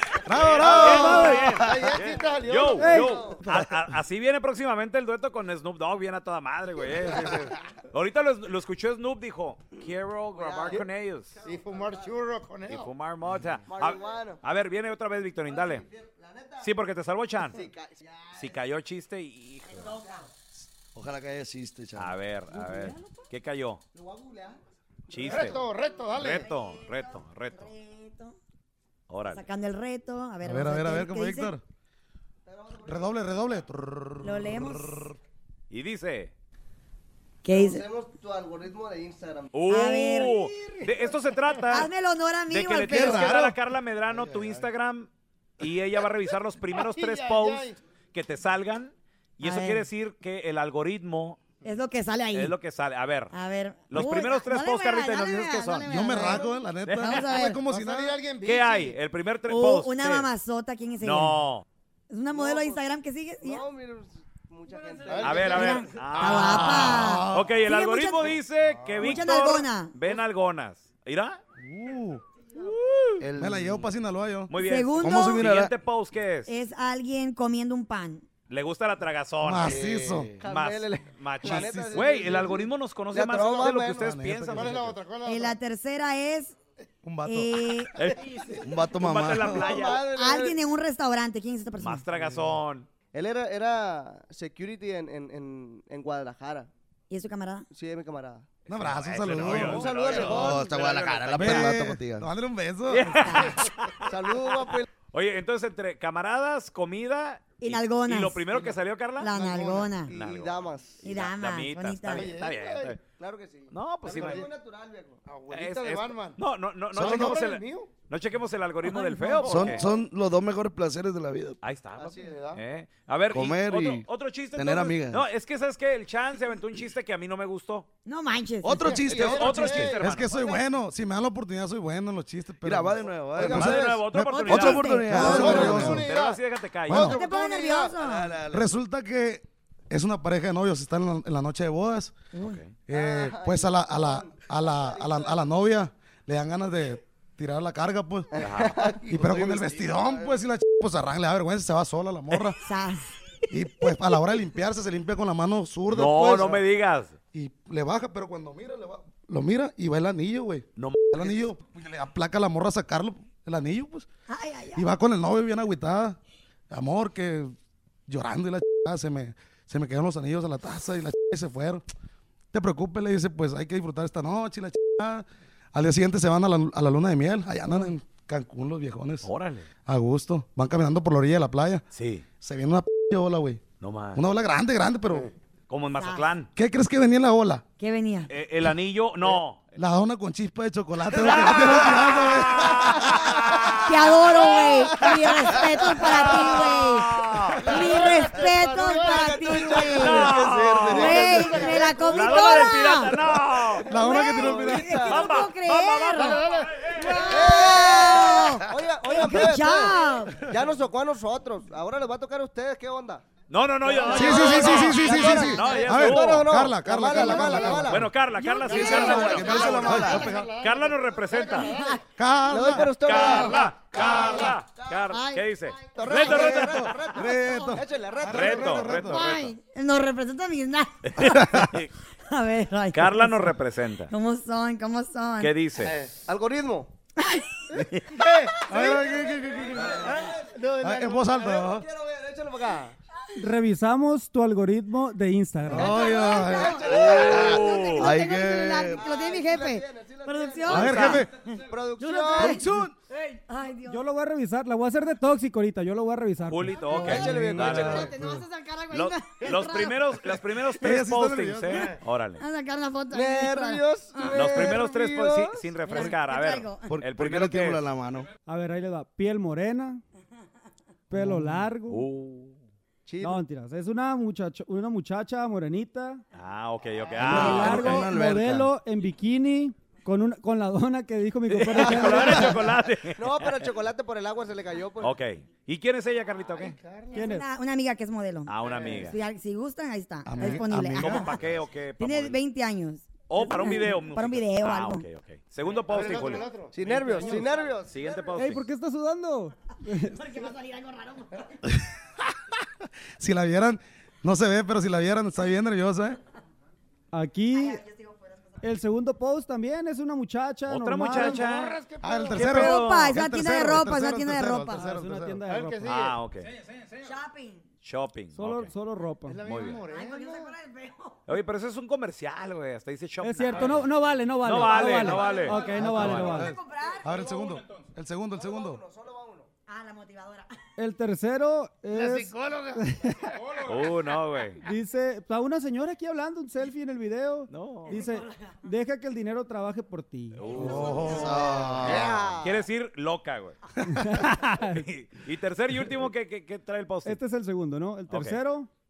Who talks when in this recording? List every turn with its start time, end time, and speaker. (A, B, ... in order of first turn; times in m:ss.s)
0:00.2-0:01.4 A
0:00.3-0:11.4 B
0:00.6-0:01.7 C
0:01.6-0:02.8 D
0:02.7-0:03.4 E
0:02.8-0:03.9 C
0:10.3-0:12.2 E
0:11.4-0:12.9 D
0:12.7-0:15.8 B
0:13.6-0:14.4 E
0:15.4-0:16.7 E
0:16.6-0:17.6 B
0:17.4-0:18.5 E
0:18.3-0:19.9 B
0:19.8-0:20.1 E
0:20.9-0:22.2 F
0:22.0-0:23.8 B
0:23.9-0:24.6 E
0:25.1-0:25.6 B
0:25.2-0:26.5 D
0:26.1-0:27.7 B
0:27.5-0:28.4 G
0:29.1-0:29.4 B
0:29.3-0:31.5 G
0:30.4-0:31.6 A
0:32.4-0:33.6 E
0:32.8-0:35.1 A
0:34.2-0:35.1 G
0:35.7-0:36.3 B
0:37.4-0:37.8 G
0:37.4-0:39.6 E
0:39.5-0:41.9 B
0:39.6-0:40.4 G
0:41.7-0:43.3 G
0:42.5-0:45.1 B
0:42.9-0:43.6 A
0:44.1-0:44.6 F
0:45.6-0:51.4 B
0:46.7-0:47.8 D
0:49.4-0:49.8 G
0:51.6-0:52.5 G
0:52.3-0:53.3 B
0:53.3-0:57.6 G
0:53.9-0:55.8 B
0:55.9-0:58.2 A
0:56.8-0:57.2 B
0:57.6-0:58.9 D
0:58.4-1:00.3 B
0:59.5-1:01.4 G
1:01.0-1:01.6 B
1:02.1-1:03.6 G
1:02.3-1:02.8 E
1:03.4-1:05.9 E
1:05.2-1:11.4 B
1:05.4-1:08.4 G
1:06.6-1:07.6 A
1:09.0-1:09.9 G
1:11.6-1:12.2 A
1:12.6-1:13.2 B
1:13.2-1:13.9 F
1:13.4-1:14.5 A
1:14.5-1:16.5 B
1:14.5-1:15.4 G
1:15.0-1:15.7 F
1:16.4-1:18.3 G
1:18.5-1:19.8 B
1:19.4-1:20.3 A
1:19.6-1:20.4 F
1:20.4-1:24.1 E
1:20.4-1:24.9 B
1:21.4-1:22.3 A
1:23.9-1:25.0 A
1:24.5-1:25.6 D
1:25.2-1:26.5 G
1:27.0-1:27.9 A
1:27.2-1:27.9 G
1:27.9-1:30.0 B
1:28.6-1:29.8 F
1:29.6-1:30.6 E
1:30.0-1:32.0 G
1:31.8-1:32.9 B
1:33.1-1:36.7 E
1:37.1-1:37.6 G
1:37.7-1:38.5 E
1:38.7-1:41.8 B
1:38.7-1:40.0 A
1:39.4-1:42.3 F
1:39.5-1:40.6 E
1:41.4-1:43.3 A
1:42.9-1:49.3 B
1:43.2-1:43.6 G
1:44.0-1:44.8 E
1:47.6-1:48.6 G
1:49.2-1:50.1 G
1:49.3-1:49.9 D
1:50.0-1:51.0 E
1:50.1-1:53.0 B
1:51.0-1:52.3 G
1:52.1-1:52.9 D
1:53.0-1:55.2 E
1:53.7-1:54.4 B
1:54.0-1:54.5 D
1:55.2-1:56.4 D
1:55.5-1:59.9 B
1:56.9-1:57.9 D
1:57.0-1:57.4 F
1:58.8-1:59.6 G
1:59.4-2:01.6 F
2:01.6-2:07.9 B
2:02.0-2:02.4 E
2:02.1-2:02.6 D
2:03.3-2:05.2 F
2:08.0-2:08.8 G
2:08.6-2:09.9 F
2:08.8-2:09.1 D
2:09.1-2:10.5 B
2:09.2-2:10.6 E
2:09.4-2:16.0 A
2:12.6-2:13.8 F
2:13.4-2:14.0 E
2:13.5-2:17.2 B
2:14.4-2:16.0 F
2:14.7-2:15.2 G
2:15.2-2:17.9 D
2:16.9-2:17.2 A
2:17.0-2:18.3 G
2:18.0-2:18.7 F
2:18.5-2:22.3 A
2:22.3-2:22.6 G
2:22.4-2:22.7 B
2:22.9-2:28.4 A
2:22.9-2:25.4 E
2:28.3-2:29.7 E
2:28.4-2:29.0 B
2:29.1-2:32.6 A
2:29.1-2:30.2 F
2:32.6-2:33.0 G
2:33.5-2:36.6 A
2:35.9-2:37.1 B
2:37.3-2:44.1 A
2:40.8-2:41.4 B
2:44.3-2:44.8 G
2:44.7-2:46.2 A
2:46.7-2:47.5 A
2:48.1-2:51.8 A
2:52.5-2:59.3 A
2:59.2-2:59.7 B
2:59.9-3:01.8 A
3:01.9-3:02.2 B
3:02.4-3:03.6 A
3:03.8-3:04.2 B
3:04.1-3:05.3 A
3:05.7-3:06.5 B
3:06.0-3:06.2 G
3:06.6-3:07.6 A
3:07.8-3:08.3 G
3:08.3-3:09.7 B
3:09.8-3:13.6 A
3:11.1-3:17.8 B
3:11.4-3:11.8 G
3:13.8-3:20.3 G
3:17.7-3:19.8 D
3:18.0-3:20.4 E
3:19.8-3:23.9 B
3:20.1-3:21.9 F
3:20.9-3:23.2 G
3:21.0-3:22.5 D
3:21.6-3:22.1 E
3:23.7-3:25.3 E
3:23.9-3:24.9 A
3:23.9-3:26.4 G
3:25.0-3:27.6 B
3:26.1-3:26.9 D
3:27.0-3:30.4 G
3:27.0-3:33.2 E
3:33.5-3:36.6 B
3:33.8-3:38.1 E
3:34.1-3:38.1 A
3:37.2-3:41.7 B
3:38.5-3:40.4 F
3:38.6-3:40.5 A
3:38.6-3:41.8 D
3:39.0-3:40.0 E
3:41.6-3:42.0 G
3:42.2-3:43.5 A
3:42.4-3:45.1 E
3:42.8-3:47.2 B
3:43.3-3:44.2 D
3:45.1-3:45.5 G
3:45.8-3:48.9 E
3:46.2-3:49.4 A
3:47.4-3:47.7 G
3:48.2-3:49.6 B
3:49.0-3:51.6 G
3:52.3-3:53.5 G
3:52.9-3:54.1 B
3:54.1-3:55.5 G
3:55.4-3:55.9 B
3:55.8-3:56.1 D
3:56.2-3:56.9 E
3:57.2-3:57.4 G
3:57.8-3:58.0 B
3:58.1-3:58.7 D
3:58.7-4:00.3 A
3:58.7-4:03.0 E
4:00.8-4:01.9 A
4:03.4-4:06.0 C
4:05.7-4:06.5 A
4:05.7-4:09.1 F
4:06.0-4:11.2 G
4:06.3-4:07.5 E
4:06.8-4:08.1 B
4:08.9-4:12.6 E
4:10.7-4:11.3 A
4:10.7-4:11.0 F
4:10.8-4:11.2 B
4:12.0-4:12.6 G
4:12.4-4:12.9 F
4:12.4-4:12.9 A
4:13.2-4:14.0 G
4:13.9-4:16.8 C
4:16.5-4:18.1 B
4:17.0-4:18.4 F
4:17.0-4:18.1 E
4:17.1-4:17.9 A
4:18.0-4:20.0 G
4:18.9-4:22.4 B
4:20.8-4:21.9 A
4:22.4-4:24.8 G
4:23.1-4:25.6 E
4:24.3-4:27.8 B
4:25.8-4:26.9 G
4:26.9-4:28.3 F
4:28.4-4:30.0 C
4:31.1-4:32.1 C
4:31.9-4:32.5 B
4:33.0-4:33.4 E
4:33.2-4:36.2 C
4:36.3-4:38.0 B
4:37.2-4:38.7 F
4:37.2-4:42.6 C
4:41.5-4:43.6 B
4:41.9-4:42.4 E
4:43.2-4:45.2 E
4:45.0-4:46.8 B
4:46.6-4:47.1 D
4:47.1-4:51.3 G
4:47.1-4:47.4 C
4:48.5-4:49.2 B
4:50.2-4:51.3 A
4:51.0-4:52.4 B
4:52.0-4:55.0 G
4:53.3-4:56.5 B
4:55.9-4:56.8 D
4:56.7-4:58.3 E
4:56.8-4:57.8 C
4:57.8-4:58.6 B
4:58.3-5:00.5 C
5:00.1-5:01.3 G
5:03.2-5:06.2 A
5:07.1-5:07.8 C
5:07.5-5:08.1 G
5:08.6-5:11.7 C
5:10.7-5:11.8 B
5:11.1-5:12.4 D
5:12.0-5:15.4 A
5:12.3-5:13.2 B
5:12.4-5:14.8 G
5:14.7-5:16.0 C
5:15.5-5:16.2 D
5:15.8-5:16.5 B
5:17.0-5:17.6 G
5:17.8-5:18.7 B
5:18.3-5:19.5 C
5:19.2-5:20.5 D
5:19.4-5:19.8 B
5:19.9-5:21.2 G
5:21.3-5:23.9 B
5:23.2-5:26.5 C
5:24.4-5:26.4 B
5:25.2-5:27.4 G
5:25.8-5:28.8 A
5:28.3-5:29.5 E
5:29.7-5:30.5 G
5:30.8-5:33.4 C
5:31.9-5:32.8 D
5:33.6-5:34.6 B
5:34.6-5:40.5 C
5:37.5-5:38.0 B
5:40.3-5:41.6 B
5:40.5-5:42.2 F
5:40.7-5:41.2 G
5:41.8-5:42.2 D
5:41.8-5:42.6 E
5:42.4-5:43.6 B
5:43.8-5:44.8 C
5:44.6-5:47.2 B
5:47.0-5:48.7 C
5:48.1-5:48.4 B